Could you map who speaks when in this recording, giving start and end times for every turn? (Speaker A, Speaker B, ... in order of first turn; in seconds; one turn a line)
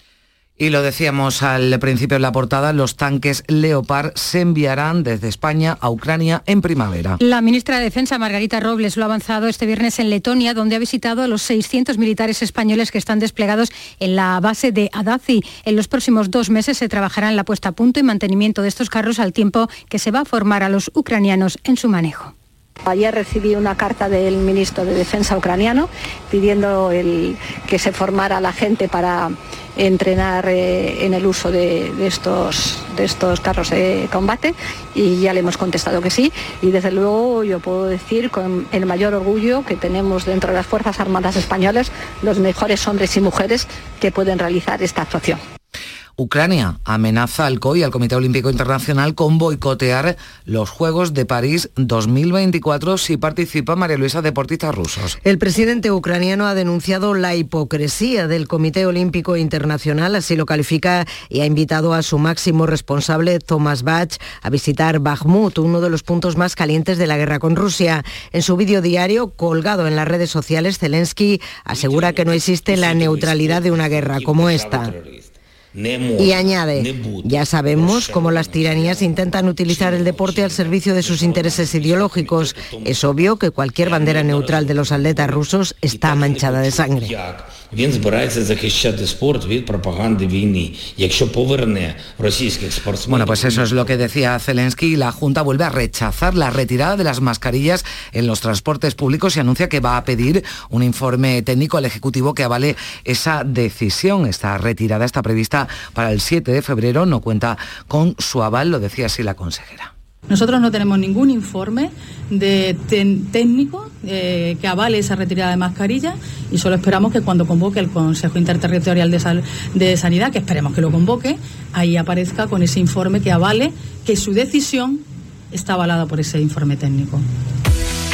Speaker A: 0.6-7.2
Speaker B: 7.2-22.3
Speaker C: 22.9-45.4
Speaker A: 46.2-55.2
Speaker D: 55.2-75.0
Speaker D: 76.2-87.2
Speaker A: 93.0-109.9
Speaker E: 110.3-127.3